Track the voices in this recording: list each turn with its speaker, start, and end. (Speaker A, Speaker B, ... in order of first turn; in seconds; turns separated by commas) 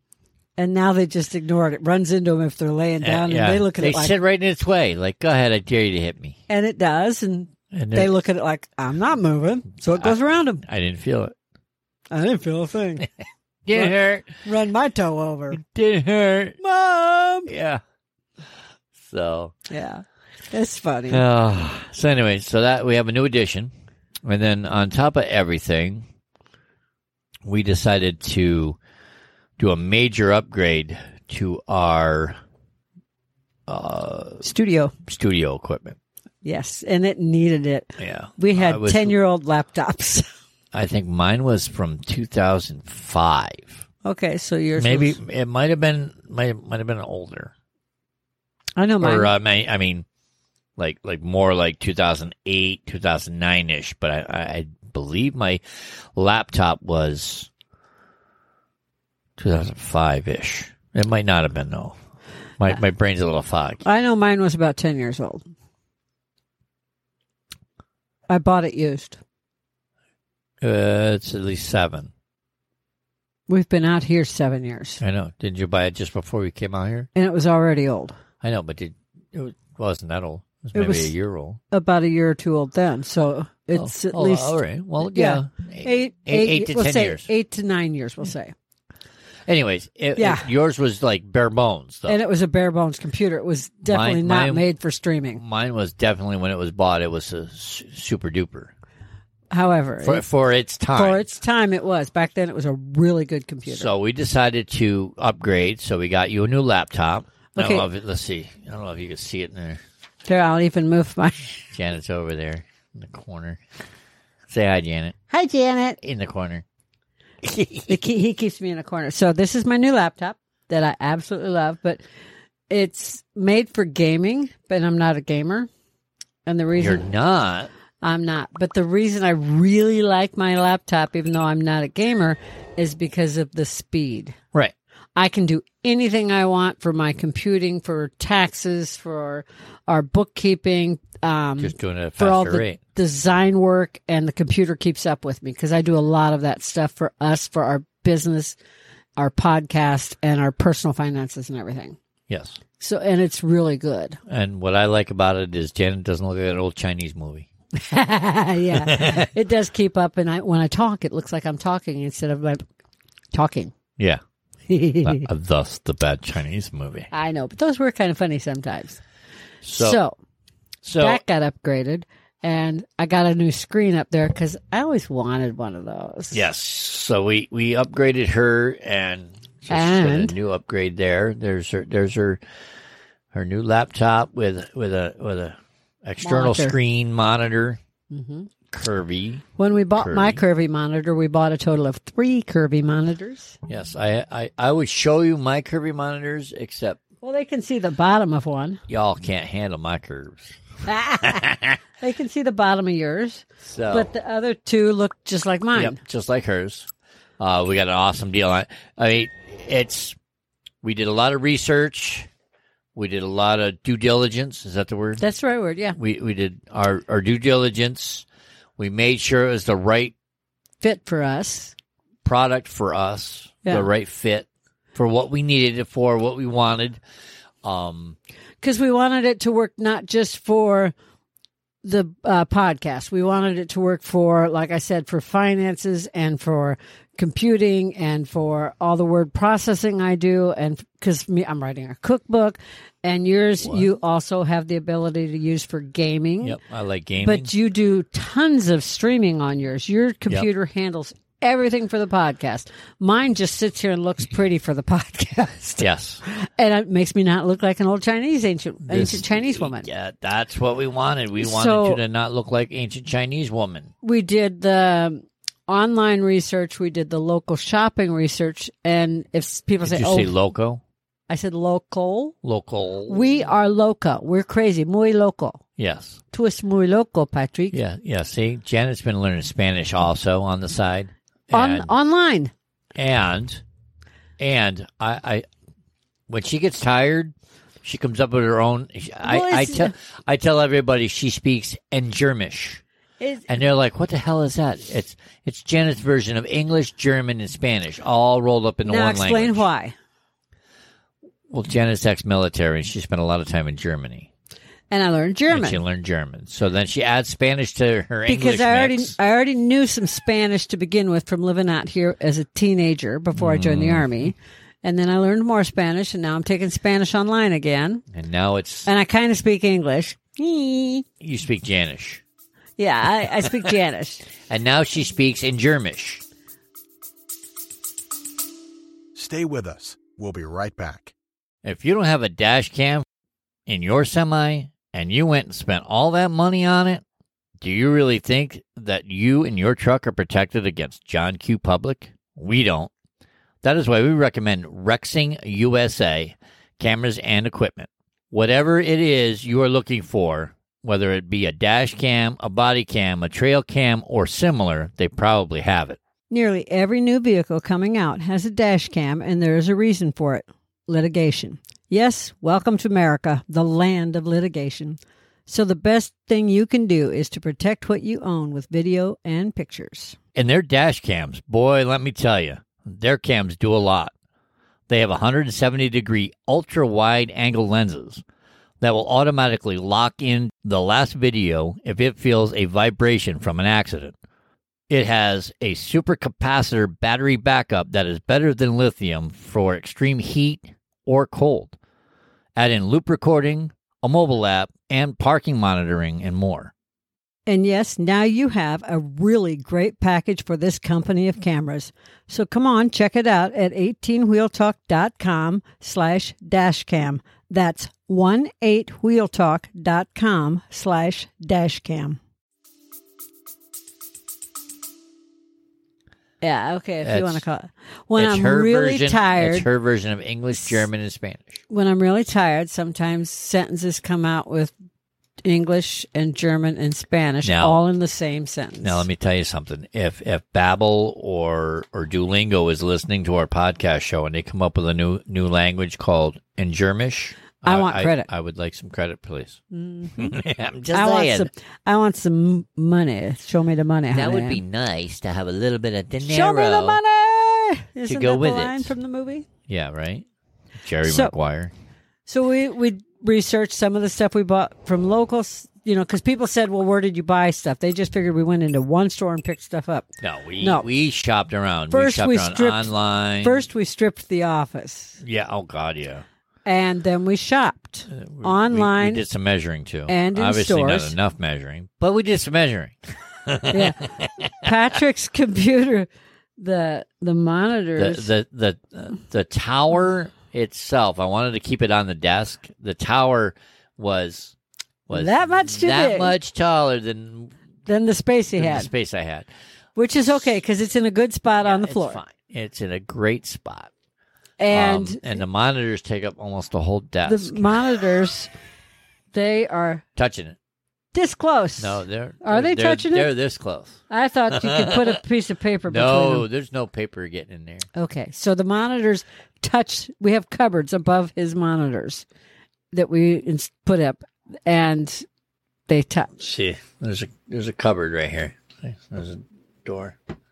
Speaker A: 0.6-4.2, Speaker B: 3.0-6.4, Speaker A: 6.5-10.6, Speaker B: 7.7-8.1, Speaker B: 9.9-11.3, Speaker A: 12.1-13.1, Speaker B: 13.7-14.3, Speaker A: 13.7-15.6, Speaker B: 15.5-16.6, Speaker A: 16.6-17.5, Speaker B: 17.5-17.8, Speaker B: 19.0-19.5, Speaker A: 19.7-21.2, Speaker B: 21.1-23.7, Speaker B: 24.2-26.1, Speaker B: 27.4-28.8, Speaker B: 29.6-32.4, Speaker B: 33.7-34.5, Speaker A: 34.4-34.9, Speaker B: 35.1-36.0, Speaker A: 36.4-40.3, Speaker B: 38.0-39.2, Speaker B: 40.7-43.8, Speaker A: 44.0-45.2, Speaker B: 44.8-47.5, Speaker A: 48.8-49.3, Speaker B: 49.0-50.0, Speaker B: 50.8-55.6, Speaker B: 56.1-57.5, Speaker B: 59.4-62.0, Speaker B: 62.6-63.8, Speaker A: 63.8-65.4, Speaker A: 68.3-69.2, Speaker B: 70.6-72.1, Speaker A: 73.5-75.0, Speaker B: 75.0-77.1, Speaker A: 77.2-78.2, Speaker B: 78.4-81.6, Speaker A: 80.7-81.1, Speaker A: 81.7-88.5, Speaker B: 83.8-87.3, Speaker B: 89.5-92.2, Speaker A: 90.2-90.5, Speaker A: 92.1-95.4, Speaker B: 93.9-94.6, Speaker B: 95.4-98.7, Speaker A: 99.5-100.2, Speaker B: 100.0-101.2, Speaker A: 100.9-103.9, Speaker B: 103.7-109.8, Speaker A: 107.5-107.9, Speaker A: 110.3-111.5, Speaker B: 111.6-113.6, Speaker B: 114.5-115.2, Speaker A: 115.3-116.0, Speaker B: 116.0-116.7, Speaker B: 117.4-118.0, Speaker A: 117.9-122.0, Speaker A: 122.7-125.7, Speaker A: 126.5-127.1, Speaker B: 126.8-127.7, Speaker A: 128.0-134.4, Speaker A: 135.2-148.6, Speaker B: 141.6-142.8, Speaker A: 149.2-152.0, Speaker B: 152.3-152.6, Speaker A: 152.8-154.2, Speaker B: 154.3-157.5, Speaker A: 157.8-162.6, Speaker B: 158.8-159.3, Speaker A: 163.3-163.7, Speaker A: 164.7-165.3, Speaker B: 165.0-167.1, Speaker A: 167.1-169.0, Speaker B: 169.6-170.0, Speaker A: 169.7-170.2, Speaker B: 170.8-171.2, Speaker A: 171.0-176.4, Speaker B: 176.3-182.4, Speaker A: 179.7-180.3, Speaker B: 183.3-187.8, Speaker A: 186.2-186.8, Speaker A: 188.1-188.5, Speaker B: 188.7-189.4, Speaker A: 189.6-193.6, Speaker B: 190.0-190.4, Speaker B: 193.7-197.0, Speaker A: 197.2-198.8, Speaker B: 198.9-200.6, Speaker A: 200.9-201.4, Speaker B: 201.2-201.8, Speaker A: 202.0-206.0, Speaker B: 203.7-204.1, Speaker B: 205.7-206.9, Speaker B: 207.4-210.2, Speaker B: 210.8-212.3, Speaker B: 212.9-215.2, Speaker A: 215.2-216.0, Speaker B: 216.0-218.2, Speaker B: 218.8-220.1, Speaker A: 220.8-221.8, Speaker B: 222.2-227.0, Speaker B: 227.6-228.2, Speaker A: 228.6-230.9, Speaker A: 231.8-246.6, Speaker B: 246.4-247.5, Speaker A: 247.2-259.9, Speaker B: 255.8-256.2, Speaker B: 258.8-263.9, Speaker A: 261.4-262.0, Speaker A: 264.0-270.3, Speaker B: 269.8-270.8, Speaker A: 271.3-272.4, Speaker B: 272.4-273.3, Speaker A: 273.1-275.6, Speaker B: 275.8-276.2, Speaker A: 276.3-277.8, Speaker B: 277.7-281.9, Speaker A: 281.5-282.5, Speaker B: 283.0-283.6, Speaker B: 284.4-285.5, Speaker B: 286.3-292.8, Speaker A: 289.2-289.9, Speaker A: 293.2-293.5, Speaker B: 293.5-299.7, Speaker A: 298.9-299.9, Speaker B: 301.5-304.3, Speaker A: 304.9-305.8, Speaker B: 305.5-309.1, Speaker A: 308.3-318.0, Speaker B: 313.4-314.3, Speaker B: 318.1-318.9, Speaker A: 318.9-321.1, Speaker B: 321.2-322.2, Speaker A: 322.8-324.2, Speaker B: 324.5-326.2, Speaker C: 329.2-331.1, Speaker B: 331.6-333.1, Speaker B: 333.7-337.0, Speaker B: 337.6-342.9, Speaker B: 343.6-356.0, Speaker A: 356.3-370.2, Speaker B: 370.4-374.1, Speaker B: 374.9-378.2, Speaker B: 378.8-384.2, Speaker B: 384.9-391.8, Speaker B: 392.6-396.7, Speaker A: 397.5-412.2, Speaker A: 416.4-419.7, Speaker B: 417.0-417.4, Speaker B: 418.2-421.6, Speaker A: 421.7-424.7, Speaker A: 425.4-429.1, Speaker B: 427.4-427.8, Speaker B: 428.8-439.6, Speaker A: 437.6-438.3, Speaker A: 439.7-440.4, Speaker B: 440.1-441.5, Speaker A: 440.9-444.6, Speaker B: 444.1-447.0, Speaker A: 446.2-449.5, Speaker B: 448.1-448.9, Speaker B: 449.7-450.3, Speaker B: 450.8-451.7, Speaker A: 451.0-451.3, Speaker A: 452.3-460.1, Speaker B: 460.2-463.6, Speaker A: 460.6-460.9, Speaker A: 461.9-465.2, Speaker B: 465.2-466.2, Speaker A: 466.6-469.2, Speaker B: 468.1-474.6, Speaker A: 470.1-471.1, Speaker A: 473.7-478.3, Speaker B: 478.0-484.6, Speaker B: 485.1-487.6, Speaker A: 485.1-486.3, Speaker A: 487.9-488.9, Speaker B: 488.6-489.5, Speaker A: 490.0-492.2, Speaker B: 491.6-493.9, Speaker A: 494.6-495.4, Speaker B: 494.7-497.8, Speaker A: 497.3-498.5, Speaker A: 499.3-500.0, Speaker B: 500.2-500.6, Speaker A: 501.1-503.3, Speaker B: 501.8-505.2, Speaker A: 504.1-506.5, Speaker B: 505.9-507.9, Speaker A: 507.9-512.2, Speaker A: 512.9-515.3, Speaker A: 515.9-516.3, Speaker B: 516.4-520.2